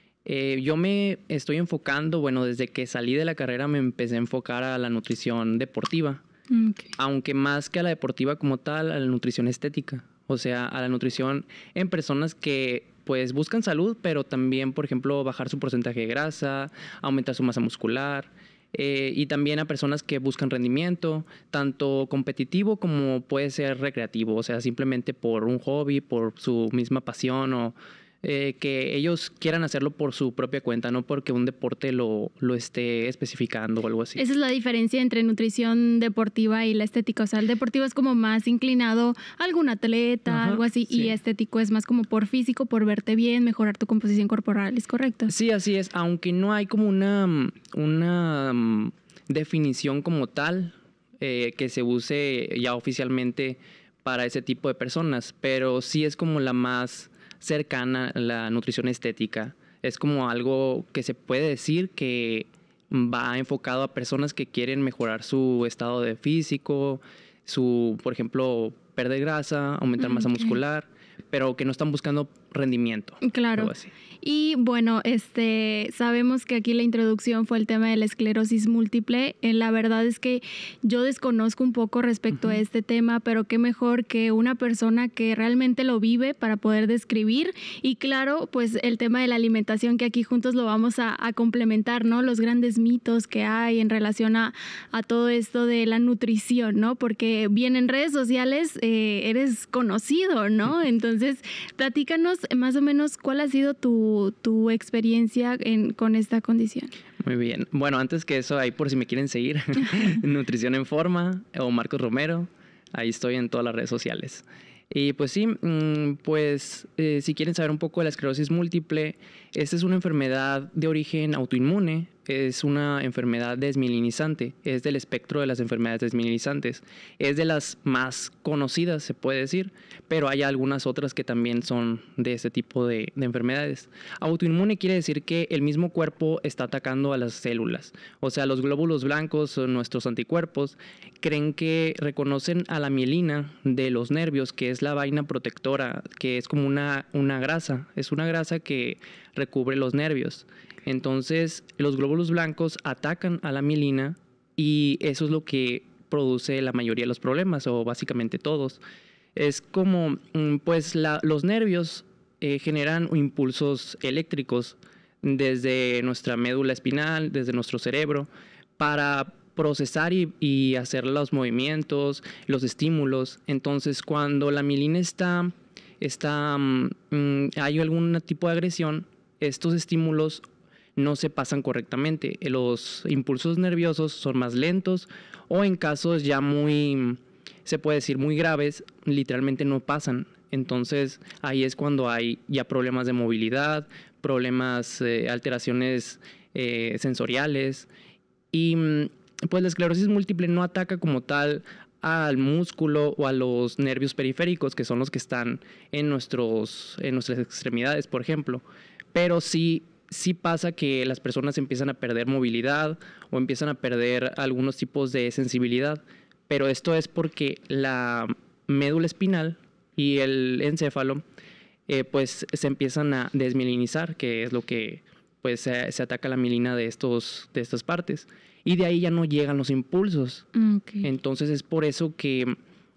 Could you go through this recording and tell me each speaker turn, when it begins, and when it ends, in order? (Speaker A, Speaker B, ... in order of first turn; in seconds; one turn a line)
Speaker A: 0.2-6.2
Speaker B: 6.5-6.9
Speaker A: 7.0-34.2
Speaker B: 34.2-45.3
Speaker A: 40.3-41.1
Speaker A: 45.3-73.9
Speaker B: 70.0-70.5
Speaker B: 73.2-106.9
Speaker A: 107.2-158.8
Speaker A: 159.3-180.4
Speaker A: 181.0-197.9
Speaker A: 198.5-221.2
Speaker A: 221.9-230.5
Speaker B: 230.6-231.1
Speaker A: 231.0-232.6